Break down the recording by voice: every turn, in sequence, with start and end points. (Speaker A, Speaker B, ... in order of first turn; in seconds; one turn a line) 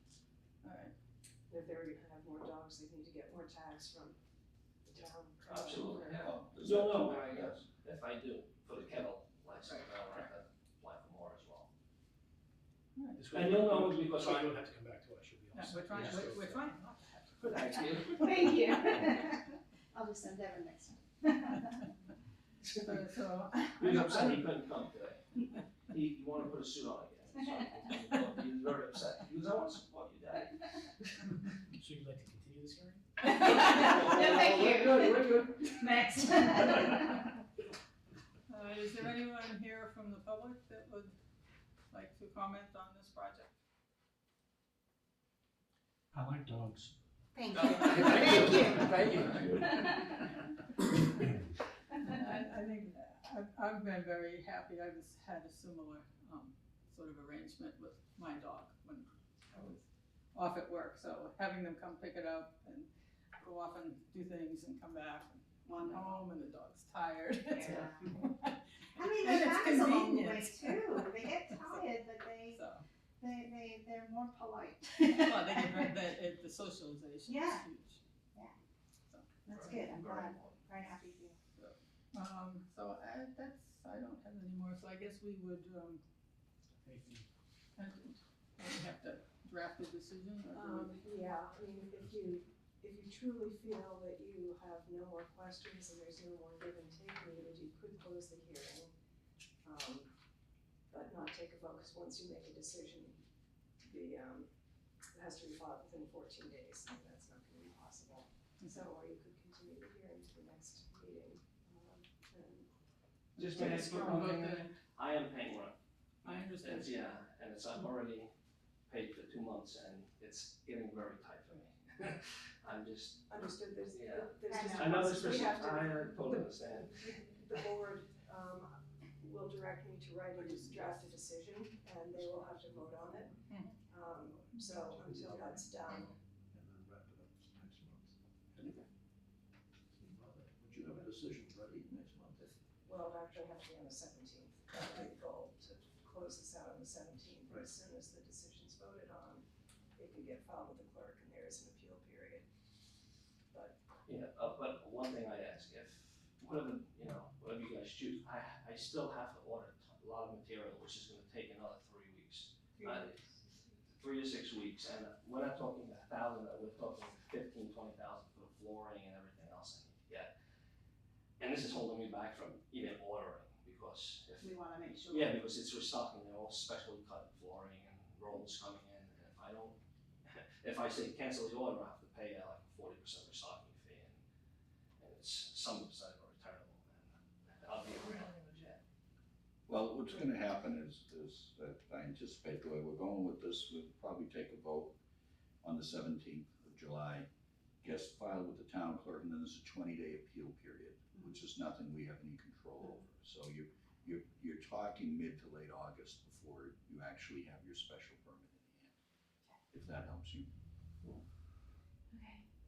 Speaker A: 0.6-0.9
Speaker B: 1.5-4.2
Speaker B: 4.8-6.4
Speaker C: 5.5-11.7
Speaker D: 6.2-7.6
Speaker A: 12.9-13.2
Speaker E: 13.1-16.6
Speaker C: 13.3-14.5
Speaker A: 15.5-17.7
Speaker C: 17.4-18.6
Speaker F: 18.1-21.8
Speaker A: 22.6-24.4
Speaker C: 23.8-25.2
Speaker C: 25.9-31.1
Speaker E: 31.8-33.0
Speaker F: 33.2-37.3
Speaker C: 33.3-35.6
Speaker A: 38.5-41.1
Speaker A: 41.9-43.5
Speaker E: 46.1-46.9
Speaker F: 47.4-50.0
Speaker E: 47.7-49.5
Speaker A: 47.9-48.2
Speaker C: 48.6-49.0
Speaker A: 49.0-49.6
Speaker A: 52.0-59.8
Speaker A: 60.3-71.8
Speaker F: 65.6-66.2
Speaker F: 67.5-68.1
Speaker F: 69.0-72.6
Speaker A: 72.5-72.8
Speaker F: 73.2-75.9
Speaker A: 75.0-78.0
Speaker F: 77.3-77.6
Speaker F: 79.5-81.4
Speaker C: 79.5-80.6
Speaker A: 81.5-86.0
Speaker E: 86.8-87.3
Speaker A: 87.8-90.9
Speaker B: 90.5-98.9
Speaker B: 99.6-100.1
Speaker B: 100.9-103.2
Speaker B: 103.8-104.5
Speaker B: 105.1-112.7
Speaker A: 113.3-114.7
Speaker C: 113.4-115.8
Speaker B: 113.5-114.3
Speaker A: 116.2-117.1
Speaker C: 116.6-118.3
Speaker C: 118.9-123.2
Speaker B: 123.3-136.1
Speaker C: 123.9-127.1
Speaker F: 124.5-125.5
Speaker D: 134.5-135.6
Speaker D: 136.5-138.8
Speaker D: 140.0-142.5
Speaker B: 142.8-152.4
Speaker C: 154.1-163.2
Speaker F: 162.8-163.2
Speaker C: 163.9-170.3
Speaker C: 171.4-174.5
Speaker F: 174.4-175.4
Speaker C: 175.1-184.2
Speaker C: 185.0-188.8
Speaker D: 189.7-194.9
Speaker D: 195.6-197.3
Speaker D: 197.8-208.9
Speaker D: 209.7-210.5
Speaker F: 212.1-212.4